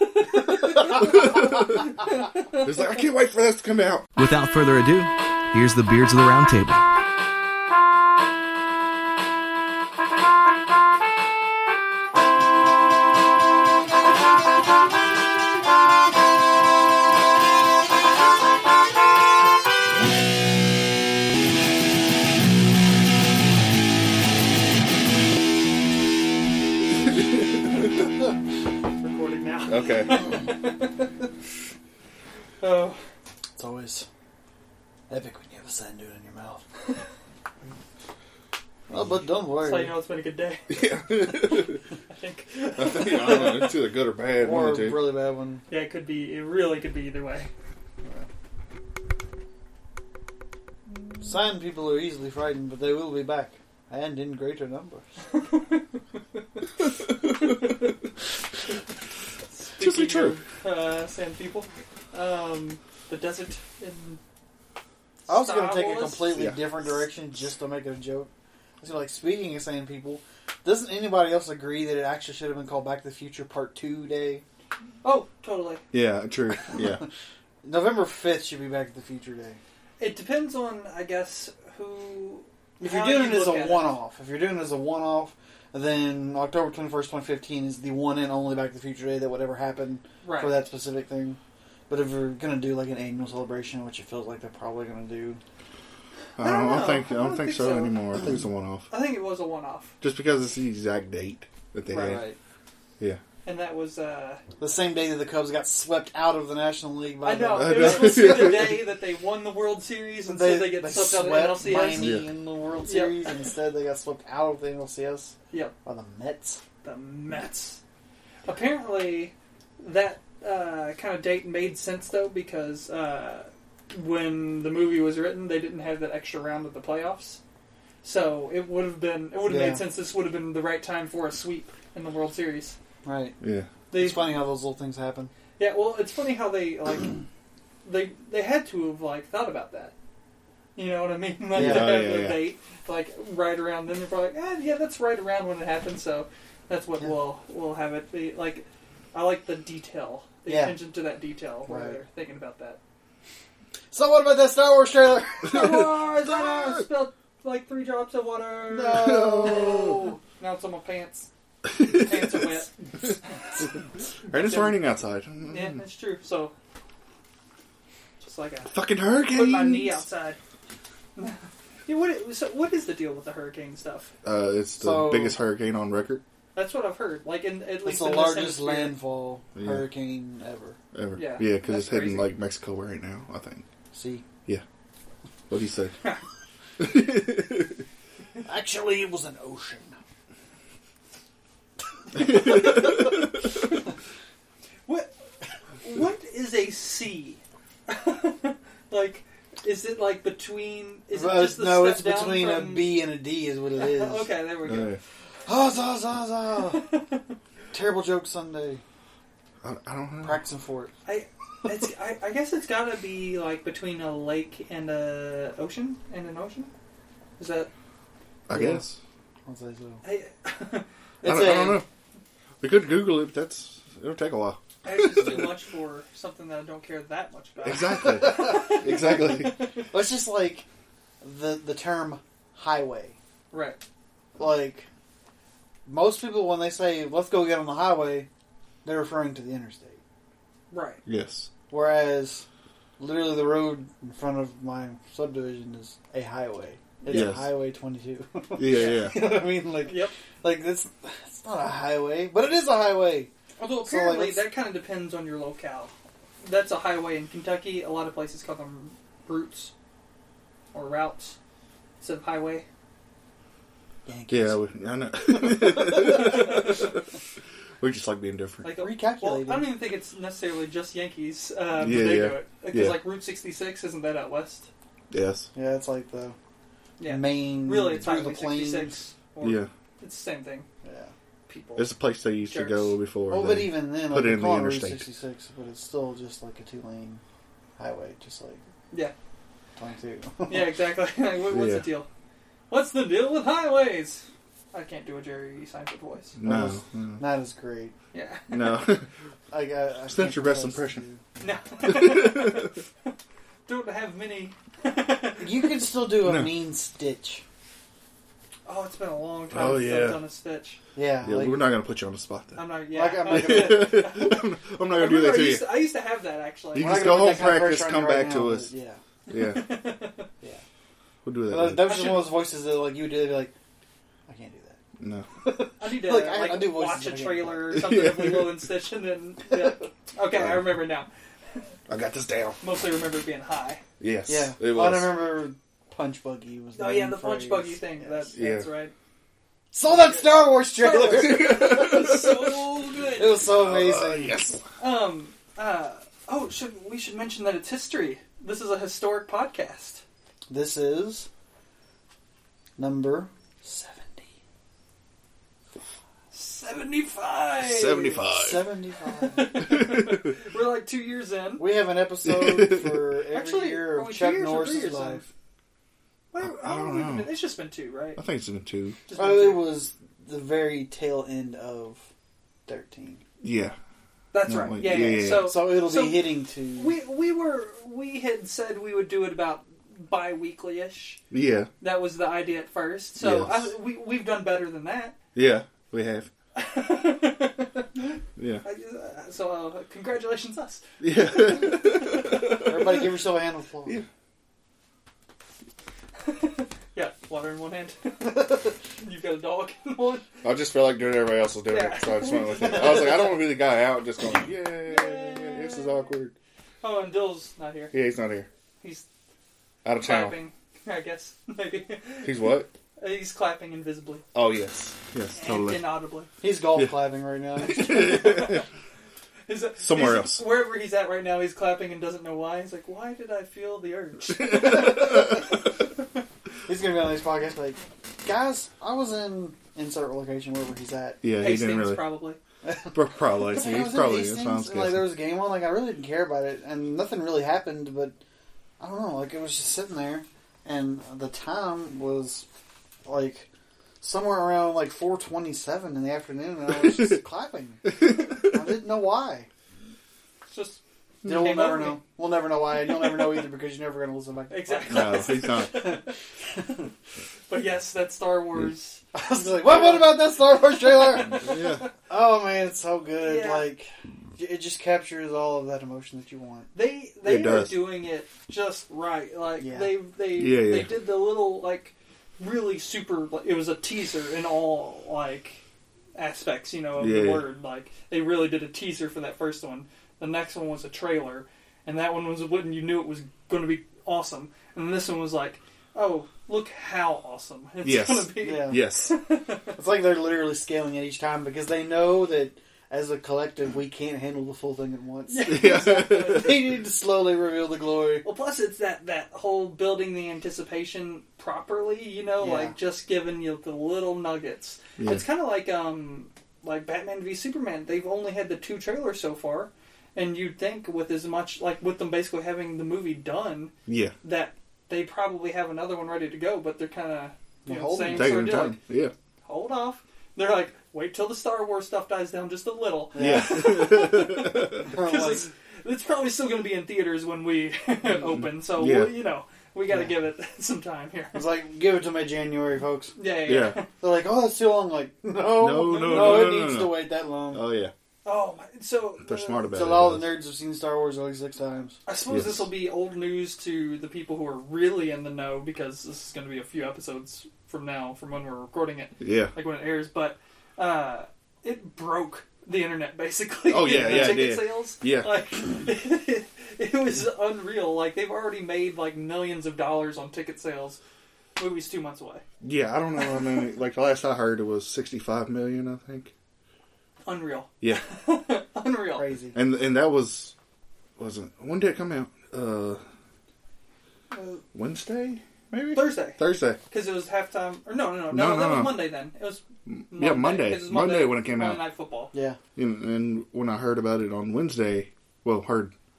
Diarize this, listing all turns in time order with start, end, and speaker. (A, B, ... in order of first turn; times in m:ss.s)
0:00.2-0:02.7 A
0:00.7-0:02.0 B
0:02.5-0:04.1 B
0:04.2-0:06.8 C
0:27.1-0:27.9 B
0:29.0-0:31.1 A
0:29.7-0:30.2 B
0:32.6-0:33.0 A
0:33.6-0:34.1 D
0:35.1-0:36.6 D
0:38.9-0:39.9 D
0:39.6-0:40.7 A
0:40.7-0:41.8 B
0:42.1-0:43.7 A
0:42.8-0:45.0 B
0:44.4-0:45.6 D
0:45.7-0:47.5 A
0:48.0-0:48.3 D
0:51.2-0:55.0 D
0:55.5-0:55.8 A
0:59.5-1:04.2 A
0:59.8-1:00.4 B
1:05.3-1:14.4 D
1:05.3-1:06.4 A
1:06.3-1:06.6 B
1:15.0-1:15.8 A
1:15.9-1:17.0 B
1:16.8-1:17.0 D
1:17.6-1:19.6 D
1:20.0-1:23.9 A
1:22.8-1:35.4 D
1:30.2-1:30.6 A
1:36.4-1:38.9 B
1:36.4-1:38.0 A
1:38.9-1:39.9 A
1:40.0-1:42.3 B
1:41.9-1:42.2 A
1:41.9-1:42.4 D
1:43.4-1:44.4 A
1:44.6-1:48.4 D
1:47.2-1:52.2 A
1:47.5-1:48.8 B
1:50.2-1:56.6 D
1:52.0-1:52.3 C
1:52.8-1:53.2 A
1:56.8-1:57.8 A
1:58.4-2:07.4 A
2:08.0-2:12.8 A
2:09.4-2:09.8 D
2:13.0-2:13.4 D
2:13.4-2:13.7 B
2:13.9-2:14.3 A
2:13.9-2:15.3 D
2:15.6-2:17.2 A
2:17.8-2:19.9 A
2:20.8-2:32.8 A
2:21.5-2:22.4 B
2:21.5-2:22.1 D
2:30.4-2:30.8 D
2:31.7-2:32.0 D
2:33.9-2:35.8 D
2:35.4-2:43.6 A
2:38.7-2:40.2 D
2:38.9-2:39.8 B
2:41.7-2:42.4 B
2:44.3-2:45.8 B
2:44.4-2:44.7 A
2:45.5-2:46.5 A
2:48.2-2:50.4 A
2:48.7-2:50.0 B
2:51.2-2:54.1 A
2:54.2-2:56.2 B
2:54.8-2:55.4 D
2:56.5-2:59.0 A
2:57.8-3:00.8 D
2:59.5-2:59.9 B
3:00.9-3:03.6 B
3:01.1-3:02.3 A
3:03.9-3:04.2 D
3:05.5-3:05.9 B
3:06.8-3:07.8 B
3:08.4-3:10.0 D
3:12.1-3:12.8 A
3:12.2-3:13.2 B
3:15.8-3:23.1 A
3:21.1-3:24.3 D
3:23.8-3:25.0 A
3:24.6-3:25.0 B
3:25.4-3:26.9 D
3:26.6-3:27.2 A
3:27.7-3:28.8 D
3:29.6-3:30.4 B
3:30.2-3:30.9 D
3:31.0-3:36.7 A
3:37.4-3:37.7 A
3:38.5-3:39.0 B
3:38.5-3:38.8 D
3:39.4-3:40.0 D
3:40.0-3:40.9 A
3:41.2-3:41.8 D
3:41.2-3:41.8 B
3:42.6-3:45.5 B
3:44.8-3:49.8 A
3:47.6-3:49.6 B
3:48.2-3:49.0 D
3:49.9-3:50.6 D
3:51.2-3:53.2 D
3:53.5-3:53.8 A
3:54.4-3:54.9 D
3:55.8-3:58.3 D
3:58.8-4:00.0 D
4:00.7-4:01.0 A
4:01.0-4:01.5 B
4:01.7-4:02.4 D
4:03.0-4:14.5 D
4:07.1-4:07.5 B
4:08.6-4:09.2 B
4:09.9-4:10.1 A
4:13.6-4:19.7 A
4:20.7-4:21.4 A
4:22.0-4:22.6 A
4:24.0-4:24.6 D
4:24.3-4:27.1 B
4:25.4-4:26.6 D
4:27.8-4:28.7 B
4:28.6-4:34.7 A
4:28.7-4:29.7 D
4:31.8-4:33.0 B
4:35.1-4:35.5 B
4:35.5-4:36.4 D
4:37.0-4:40.7 A
4:37.0-4:39.0 D
4:39.4-4:39.7 B
4:40.8-4:41.1 D
4:41.5-4:42.9 A
4:41.8-4:45.0 B
4:43.3-4:47.2 D
4:47.8-4:48.6 D
4:49.8-4:50.7 D
4:50.5-4:52.1 A
4:51.5-4:51.9 B
4:52.7-4:56.4 A
4:56.4-4:57.2 B
4:56.4-4:57.9 D
4:58.1-4:58.8 A
4:58.5-4:59.1 B
4:59.5-5:01.2 D
5:00.1-5:01.0 B
5:01.4-5:02.8 A
5:01.8-5:02.7 B
5:03.7-5:05.5 A
5:05.4-5:07.4 D
5:06.2-5:06.5 B
5:08.6-5:10.8 A
5:09.5-5:10.2 B
5:10.9-5:11.7 D
5:11.2-5:12.6 B
5:12.6-5:17.4 A
5:12.9-5:13.9 D
5:13.2-5:15.9 B
5:16.7-5:18.7 B
5:16.8-5:19.0 D
5:19.3-5:19.8 B
5:19.3-5:20.3 A
5:21.2-5:22.0 B
5:21.5-5:23.5 D
5:21.8-5:22.4 A
5:24.3-5:24.8 D
5:25.0-5:25.3 B
5:25.4-5:27.6 D
5:25.8-5:31.1 A
5:27.7-5:28.6 B
5:30.3-5:30.8 B
5:31.9-5:32.6 B
5:32.6-5:33.8 A
5:34.0-5:35.3 B
5:34.3-5:38.3 D
5:36.7-5:38.9 A
5:38.4-5:38.7 B
5:39.7-5:42.0 D
5:39.8-5:43.4 A
5:40.9-5:42.8 B
5:43.2-5:44.5 D
5:43.3-5:44.6 B
5:44.8-5:50.0 A
5:50.5-5:51.3 D
5:52.8-5:54.3 D
5:56.3-5:58.3 A
5:57.6-5:58.6 B
5:58.3-5:59.6 D
5:59.3-6:01.7 A
5:59.5-6:00.3 B
6:01.6-6:05.2 D
6:02.2-6:03.0 B
6:03.3-6:05.3 A
6:06.3-6:08.2 A
6:06.4-6:07.3 B
6:08.2-6:09.0 B
6:09.0-6:09.7 A
6:09.2-6:12.1 D
6:12.7-6:13.2 D
6:13.4-6:13.8 B
6:14.3-6:21.2 A
6:14.4-6:15.6 B
6:15.1-6:16.9 D
6:21.3-6:21.7 B
6:21.8-6:25.1 A
6:23.2-6:23.7 B
6:25.3-6:26.3 B
6:26.6-6:27.9 A
6:28.4-6:28.6 B
6:28.6-6:32.7 A
6:31.0-6:32.8 B
6:32.6-6:34.0 D
6:36.2-6:40.2 A
6:40.4-6:46.3 B
6:41.7-6:43.4 A
6:44.8-6:46.0 A
6:46.8-6:47.9 A
6:47.9-6:48.5 B
6:48.8-6:49.0 A
6:49.8-6:50.4 B
6:50.0-6:54.2 A
6:52.2-6:52.7 B
6:54.3-6:55.9 B
6:55.4-6:56.3 A
6:56.4-6:58.5 D
6:56.7-6:57.0 B
6:57.7-6:58.6 B
6:58.0-6:58.6 A
6:59.5-7:05.4 A
6:59.8-7:00.4 B
7:04.4-7:05.4 B
7:06.6-7:11.2 D
7:11.2-7:12.0 B
7:11.4-7:12.4 A
7:12.6-7:18.2 D
7:12.9-7:15.0 B
7:18.8-7:22.4 D
7:23.0-7:23.5 D
7:24.0-7:29.5 D
7:28.0-7:28.5 B
7:30.4-7:32.0 A
7:31.2-7:35.6 D
7:34.5-7:36.9 A
7:34.8-7:36.0 B
7:37.5-7:39.0 A
7:39.1-7:46.7 D
7:41.3-7:41.9 B
7:41.4-7:41.8 A
7:43.2-7:43.7 A
7:46.7-7:55.6 A
7:47.2-7:47.9 B
7:49.6-7:49.9 D
7:50.3-7:51.0 B
7:56.1-8:09.8 A
7:57.0-7:57.4 B
8:07.8-8:09.2 B
8:08.4-8:08.8 D
8:09.8-8:18.2 D
8:15.3-8:16.6 A
8:15.4-8:16.6 B
8:18.2-8:33.7 A
8:22.4-8:22.7 D
8:25.0-8:25.2 B
8:33.8-8:34.2 B
8:34.2-8:38.8 A
8:37.6-8:38.7 D
8:38.0-8:39.1 B
8:39.4-8:51.4 A
8:43.1-8:43.9 D
8:43.2-8:44.8 B
8:44.8-8:45.5 D
8:48.2-8:49.2 B
8:49.9-8:50.1 D
8:51.3-8:53.1 D
8:53.2-8:53.9 A
8:53.4-8:53.8 B
8:54.0-8:57.6 D
8:55.6-8:57.9 B
8:55.8-8:56.7 A
8:58.2-8:59.7 A
8:59.2-9:00.4 B
8:59.7-9:02.0 D
9:02.0-9:21.0 A
9:02.3-9:02.7 B
9:09.2-9:09.5 B
9:13.7-9:15.3 B
9:13.9-9:14.4 D
9:21.6-9:22.4 A
9:22.6-9:26.3 B
9:27.2-9:29.3 A
9:29.2-9:29.6 D
9:29.5-9:30.5 B
9:31.2-9:33.0 B
9:34.3-9:34.6 A
9:34.7-9:36.8 B
9:35.9-9:42.3 A
9:38.3-9:39.0 B
9:39.9-9:41.8 B
9:42.3-9:42.6 D
9:42.8-9:45.9 B